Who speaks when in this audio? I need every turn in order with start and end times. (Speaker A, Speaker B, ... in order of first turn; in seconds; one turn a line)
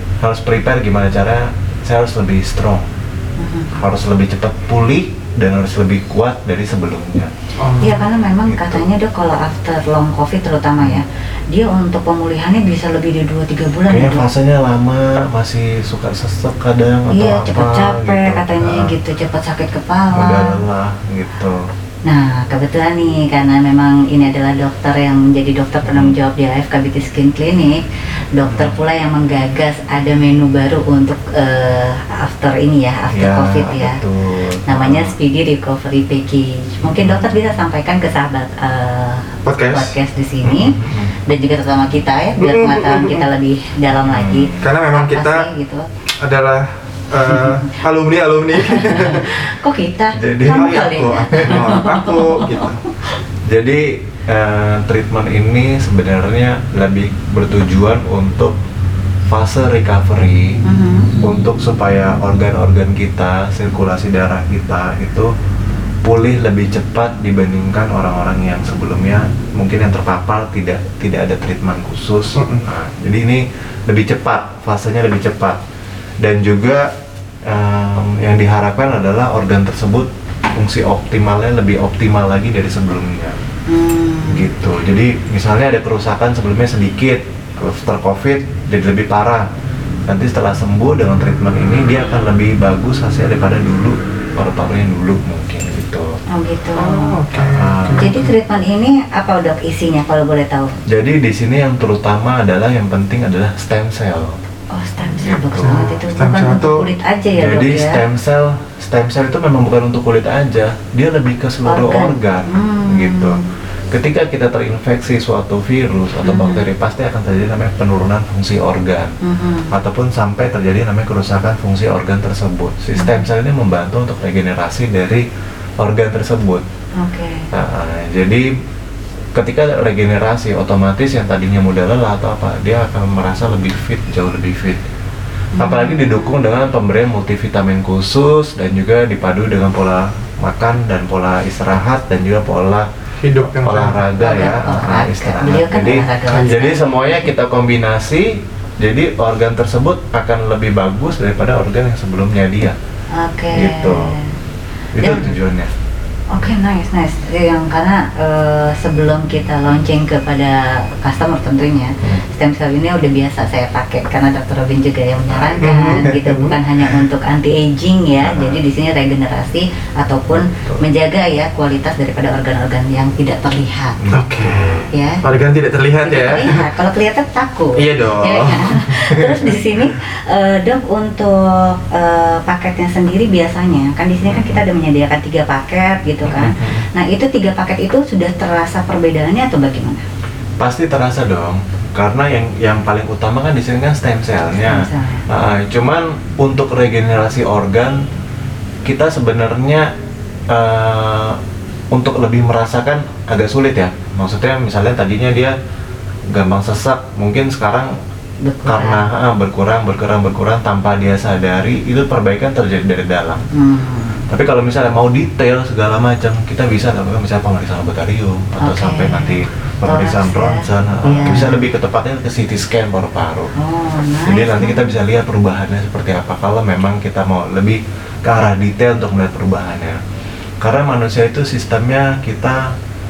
Speaker A: 0.2-2.9
Speaker B: 3.4-3.8
Speaker A: 3.8-7.3
Speaker C: 7.6-8.0
Speaker B: 7.8-14.3
Speaker A: 8.4-8.9
Speaker A: 13.9-19.0
Speaker B: 17.1-20.6
Speaker A: 20.1-21.7
Speaker B: 22.1-27.8
Speaker A: 25.9-26.2
Speaker B: 28.3-34.0
Speaker A: 28.4-28.8
Speaker A: 33.1-35.2
Speaker B: 34.7-45.9
Speaker A: 36.8-37.3
Speaker C: 39.5-40.0
Speaker A: 40.4-41.1
Speaker C: 42.4-43.3
Speaker A: 44.0-44.6
Speaker C: 44.6-45.5
Speaker C: 46.2-49.5
Speaker B: 47.2-47.7
Speaker B: 48.6-53.2
Speaker A: 50.1-51.6
Speaker C: 50.5-52.8
Speaker A: 53.5-58.5
Speaker A: 59.3-60.6
Speaker B: 60.6-61.1
Speaker A: 61.1-65.3
Speaker A: 66.0-75.6
Speaker C: 72.3-72.7
Speaker A: 76.2-76.9
Speaker A: 77.4-83.4
Speaker B: 83.7-84.5
Speaker A: 84.3-89.5
Speaker A: 90.1-96.2
Speaker B: 96.3-97.2
Speaker C: 96.8-98.2
Speaker A: 97.3-98.2
Speaker B: 98.0-100.8
Speaker A: 100.9-104.3
Speaker B: 104.7-108.0
Speaker A: 105.2-106.0
Speaker C: 105.6-106.9
Speaker A: 107.3-119.2
Speaker B: 111.7-113.4
Speaker B: 116.2-116.7
Speaker B: 119.2-119.7
Speaker A: 119.7-125.3
Speaker B: 123.0-123.2
Speaker A: 125.8-126.7
Speaker B: 127.0-127.5
Speaker A: 127.5-128.5
Speaker A: 129.3-134.8
Speaker B: 135.6-136.4
Speaker A: 135.6-142.9
Speaker C: 143.2-144.0
Speaker A: 143.6-152.8
Speaker B: 144.2-147.3
Speaker C: 146.3-146.6
Speaker B: 153.2-154.4
Speaker A: 153.5-154.2
Speaker A: 154.9-155.7
Speaker B: 155.0-155.3
Speaker B: 156.3-174.0
Speaker A: 165.3-166.2
Speaker C: 165.6-166.6
Speaker A: 168.2-168.6
Speaker A: 170.3-170.9
Speaker A: 174.0-174.9
Speaker C: 174.1-176.7
Speaker B: 174.9-175.2
Speaker B: 176.0-190.0
Speaker C: 177.8-179.6
Speaker A: 186.2-186.9
Speaker A: 190.6-198.1
Speaker B: 194.6-195.3
Speaker A: 198.8-199.9
Speaker A: 200.5-201.4
Speaker A: 201.9-205.6
Speaker A: 206.3-207.9
Speaker B: 208.4-209.1
Speaker A: 208.7-213.5
Speaker B: 213.5-214.3
Speaker A: 214.3-223.5
Speaker B: 218.6-221.7
Speaker B: 223.6-224.9
Speaker A: 224.2-230.0
Speaker A: 230.6-232.8